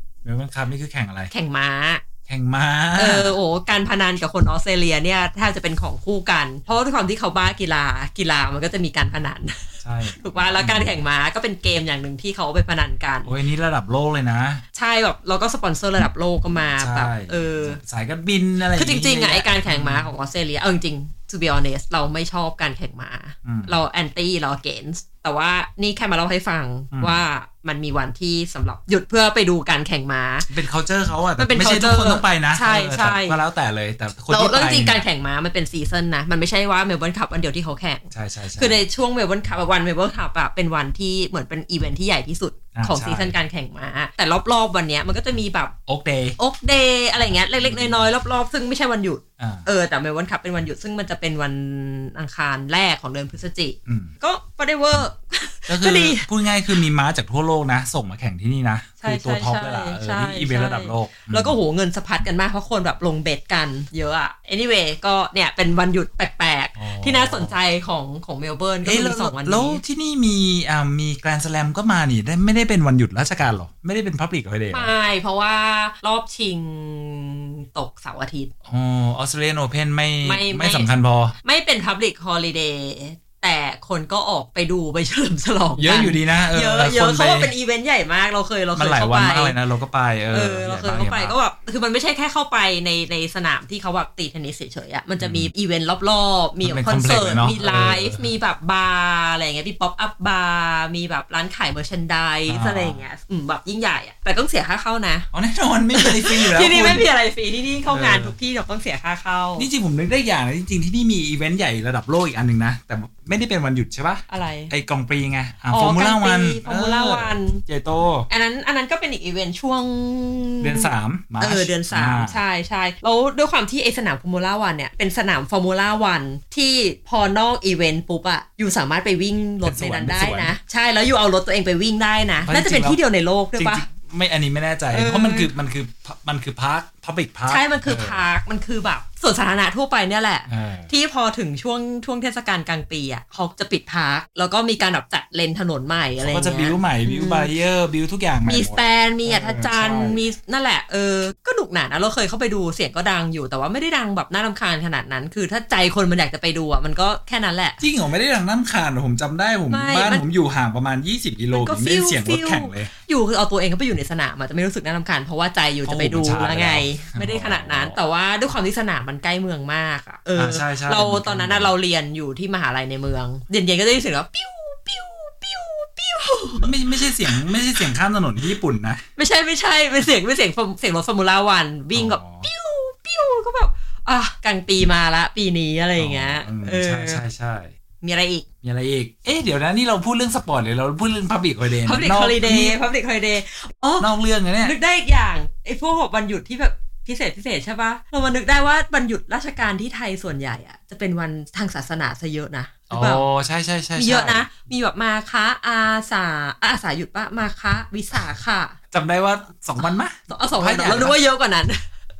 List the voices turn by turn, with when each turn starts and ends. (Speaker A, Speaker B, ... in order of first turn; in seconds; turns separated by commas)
Speaker A: 0.2-1.3, Speaker B: 1.3-2.0, Speaker A: 2.3-3.4, Speaker B: 3.0-13.3, Speaker A: 9.8-10.9, Speaker A: 13.2-14.6, Speaker B: 14.7-17.8, Speaker A: 16.8-20.1, Speaker B: 18.7-30.5, Speaker A: 23.4-23.7, Speaker A: 26.9-27.2, Speaker A: 30.5-35.0, Speaker B: 31.4-33.4, Speaker B: 34.3-45.7, Speaker A: 38.1-38.8, Speaker A: 42.7-43.4, Speaker A: 45.9-46.4, Speaker B: 46.4-56.3, Speaker A: 47.6-48.0, Speaker A: 49.4-49.7, Speaker A: 53.9-54.1, Speaker A: 55.7-61.5, Speaker B: 59.0-69.8, Speaker A: 66.8-67.5, Speaker A: 68.8-74.9, Speaker B: 74.7-78.5, Speaker A: 78.7-81.3, Speaker B: 80.2-80.9, Speaker B: 81.4-89.5, Speaker A: 85.8-87.5, Speaker A: 88.8-91.3, Speaker B: 90.3-105.3, Speaker A: 95.2-95.5, Speaker A: 96.6-98.2, Speaker A: 102.5-103.0, Speaker A: 105.3-107.1, Speaker B: 105.9-109.7, Speaker A: 107.9-108.3, Speaker A: 109.6-118.3, Speaker B: 114.3-114.7, Speaker B: 115.7-117.6, Speaker B: 118.3-133.8, Speaker A: 120.6-122.4, Speaker A: 129.6-130.5, Speaker A: 132.4-133.0, Speaker A: 133.6-138.2, Speaker B: 134.9-135.5, Speaker B: 137.5-147.5, Speaker A: 140.5-140.9, Speaker A: 146.2-150.2, Speaker B: 148.4-157.8, Speaker A: 157.8-162.9, Speaker B: 159.7-160.2, Speaker B: 161.5-177.9, Speaker A: 165.8-168.0, Speaker A: 170.3-171.7, Speaker A: 176.6-179.0, Speaker B: 179.2-187.2, Speaker A: 181.9-182.5, Speaker A: 186.0-187.7, Speaker B: 188.0-188.4, Speaker A: 188.6-192.8, Speaker B: 191.8-194.1, Speaker A: 194.0-194.7, Speaker B: 194.6-203.2, Speaker A: 202.9-204.5, Speaker B: 203.9-208.8, Speaker A: 208.9-211.2, Speaker B: 210.3-211.8